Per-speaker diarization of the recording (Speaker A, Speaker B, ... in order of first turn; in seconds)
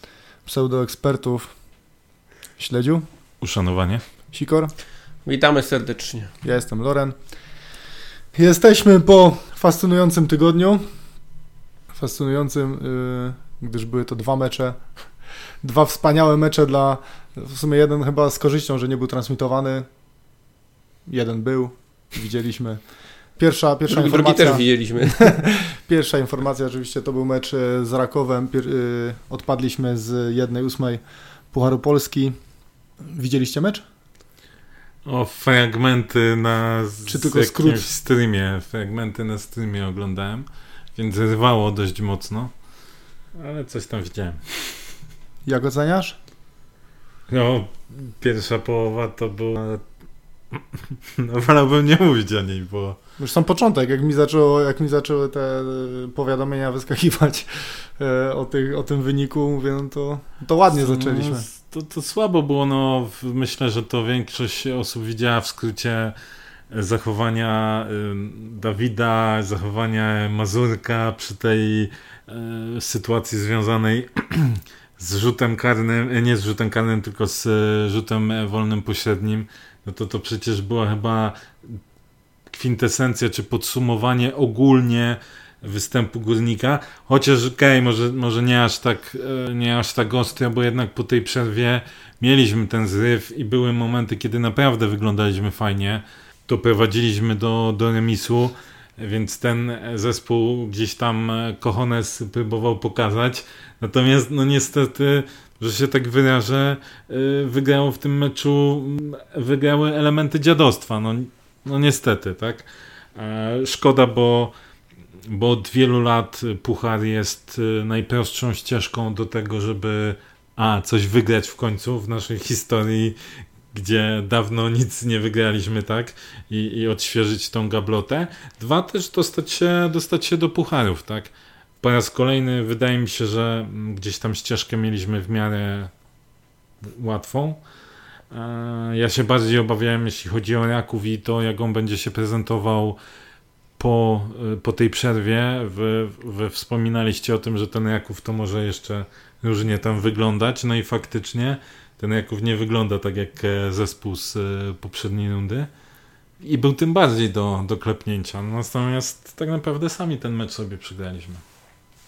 Speaker A: 0.5-1.5, 2.6-3.0, 4.3-4.7, 6.4-7.1, 8.3-10.8, 11.9-14.8, 15.6-19.9, 21.1-22.8, 23.4-24.6, 25.2-31.0, 31.5-32.3, 33.1-33.8, 37.1-37.9, 45.5-46.1, 53.2-61.5
Speaker B: 3.4-4.0, 35.0-42.5, 43.3-44.7, 47.3-49.9, 50.5-53.0, 60.7-66.1, 66.7-81.8, 82.5-114.5, 115.3-123.2, 123.7-135.9, 136.8-137.6, 138.3-143.0, 143.8-155.7, 156.4-161.4
Speaker C: 5.2-6.3, 23.9-25.4